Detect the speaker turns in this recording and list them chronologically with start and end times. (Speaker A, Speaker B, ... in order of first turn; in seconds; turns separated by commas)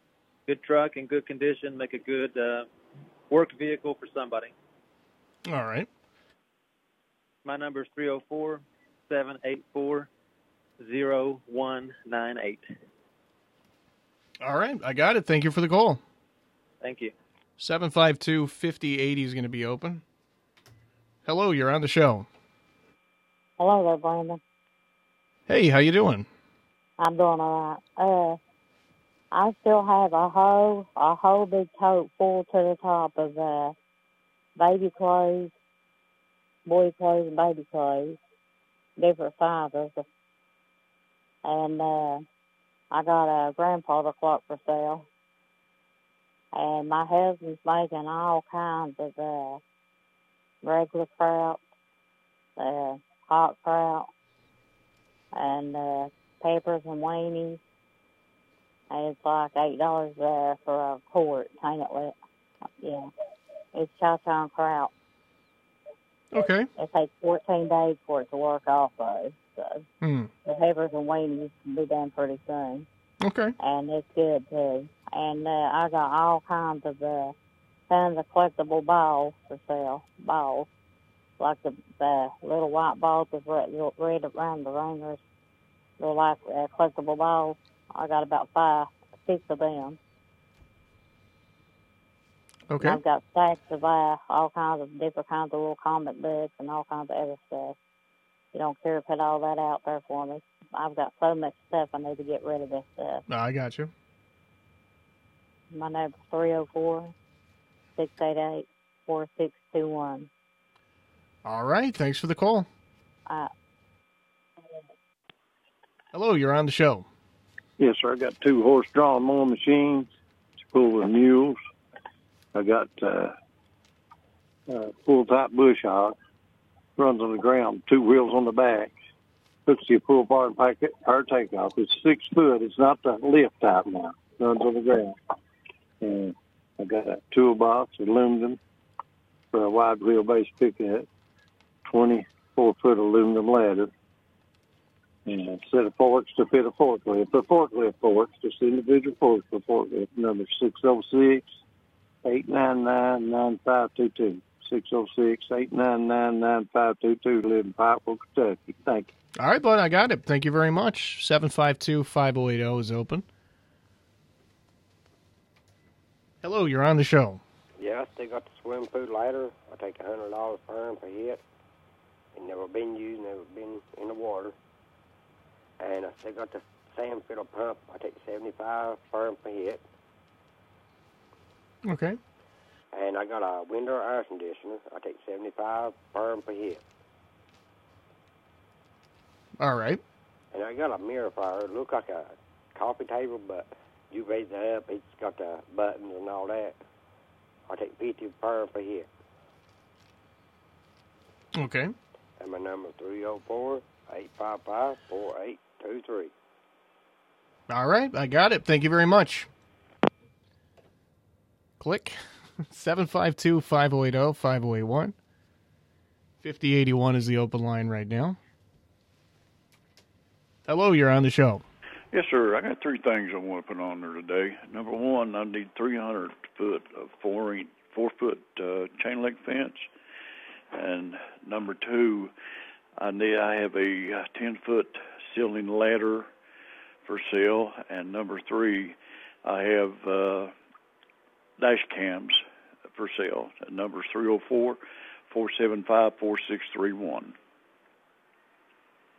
Speaker A: 0.5-2.7, Speaker A: 3.3-4.5, Speaker B: 5.5-5.9, Speaker A: 7.4-10.1, Speaker A: 10.8-12.7, Speaker B: 14.4-16.0, Speaker A: 16.8-17.1, Speaker B: 17.6-20.0, Speaker B: 21.2-22.3, Speaker C: 23.6-24.4, Speaker B: 25.5-26.3, Speaker C: 27.0-28.4, Speaker C: 29.3-33.8, Speaker C: 34.6-35.5, Speaker C: 36.6-38.2, Speaker C: 39.0-40.0, Speaker C: 41.4-42.2, Speaker C: 42.9-45.1, Speaker C: 46.5-49.6, Speaker C: 50.6-51.6, Speaker C: 52.6-54.1, Speaker C: 55.3-57.6, Speaker C: 58.9-62.1, Speaker C: 62.8-63.1, Speaker C: 63.7-64.9, Speaker B: 66.3-66.7, Speaker C: 66.8-69.8, Speaker B: 70.0-70.3, Speaker C: 70.5-72.9, Speaker B: 73.2-73.5, Speaker C: 73.6-77.3, Speaker C: 77.9-80.7, Speaker C: 81.4-85.2, Speaker C: 86.0-90.0, Speaker B: 92.7-93.0, Speaker C: 92.8-97.8, Speaker C: 98.5-103.2, Speaker B: 103.3-103.9, Speaker C: 105.7-107.1, Speaker C: 108.0-110.3, Speaker B: 111.5-112.7, Speaker B: 116.1-117.1, Speaker D: 117.8-120.1, Speaker D: 120.7-121.6, Speaker D: 122.5-123.3, Speaker D: 124.7-126.2, Speaker D: 127.0-128.9, Speaker D: 129.7-135.2, Speaker D: 136.0-138.6, Speaker D: 139.5-141.1, Speaker D: 141.9-143.9, Speaker D: 145.3-151.5, Speaker D: 152.2-159.1, Speaker B: 159.4-163.2, Speaker B: 166.4-167.4, Speaker E: 167.8-171.4, Speaker E: 172.4-174.5, Speaker E: 175.8-179.8, Speaker B: 181.8-182.2, Speaker E: 182.9-186.8, Speaker B: 189.6-190.0, Speaker E: 190.5-196.8, Speaker E: 197.7-199.1, Speaker B: 201.6-201.9, Speaker E: 202.4-206.3, Speaker B: 207.7-209.5, Speaker B: 211.8-215.1, Speaker B: 216.4-218.4, Speaker B: 220.7-221.6, Speaker F: 222.1-229.9, Speaker F: 230.7-232.3, Speaker F: 233.0-236.3, Speaker F: 237.1-240.5, Speaker F: 241.6-247.3